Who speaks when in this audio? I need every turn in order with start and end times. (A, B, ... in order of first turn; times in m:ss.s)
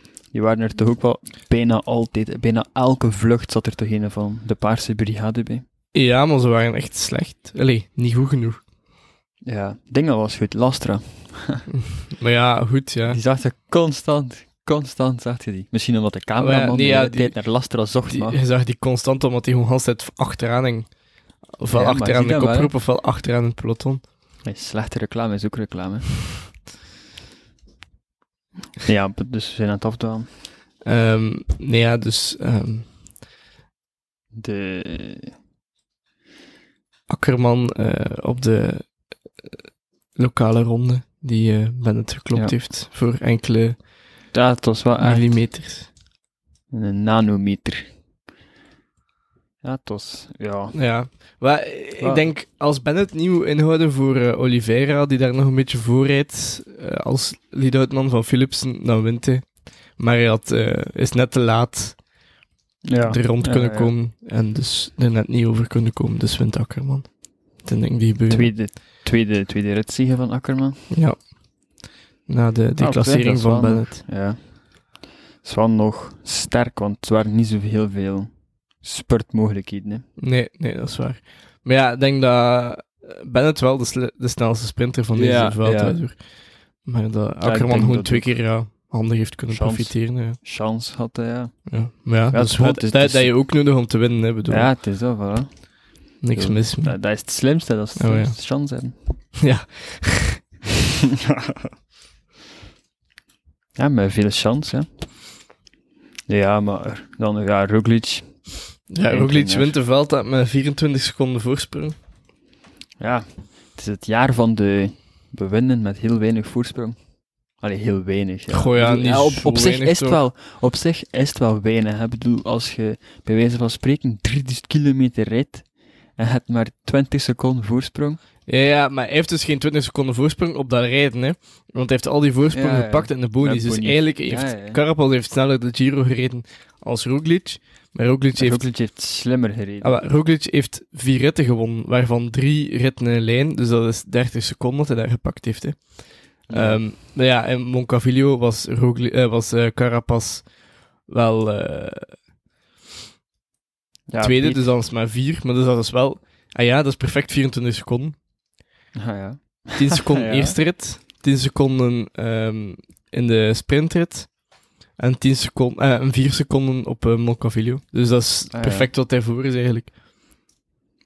0:00.3-0:05.6 A
0:05.9-0:08.6 B
0:09.4-0:11.6 A
0:11.7-0:13.2 B
0:13.1-0:18.4 A
0:16.4-0:17.3 B
0:18.1-0:20.9 B
0:21.6-0:24.0 B
0:21.7-0:22.7 A
0:24.4-0:26.1 A
0:28.8-0:30.3 A
0:30.8-0:32.9 B
0:34.4-0:35.3 A
0:37.1-0:38.9 B
0:40.2-0:43.8 B
0:44.3-0:45.2 A
0:45.0-0:45.9 B
0:46.7-0:47.9 A
0:49.6-0:50.7 A
0:50.7-1:02.0 B
0:52.0-0:52.2 A
1:02.8-1:03.9 A
1:03.1-1:07.1 B
1:07.6-1:08.5 B
1:08.3-1:10.8 A
1:10.9-1:11.2 B
1:12.3-1:14.0 B
1:12.8-1:14.4 A
1:15.4-1:18.3 A
1:18.8-1:20.0 A
1:20.2-1:26.2 B
1:25.1-1:26.0 A
1:26.8-1:30.4 B
1:27.4-1:28.3 A
1:29.5-1:31.6 A
1:31.7-1:34.7 B
1:32.3-1:33.3 A
1:34.5-1:35.5 A
1:36.2-1:36.9 B
1:36.3-1:38.9 A
1:38.0-1:38.3 B
1:39.4-1:40.4 B
1:41.2-1:41.6 A
1:43.8-1:44.9 A
1:46.3-1:48.3 A
1:48.9-1:52.0 B
1:49.1-1:49.8 A
1:53.0-1:57.0 A
1:57.6-2:05.6 A
1:58.5-2:00.2 B
2:06.2-2:08.2 A
2:08.5-2:18.6 B
2:12.5-2:14.8 A
2:18.4-2:20.0 A
2:19.8-2:25.9 B
2:26.5-2:26.8 A
2:26.5-2:30.5 B
2:31.1-2:32.1 B
2:34.1-2:34.6 A
2:34.2-2:38.2 B
2:39.0-2:40.6 A
2:39.7-2:44.3 B
2:45.0-2:49.9 B
2:48.5-2:48.9 A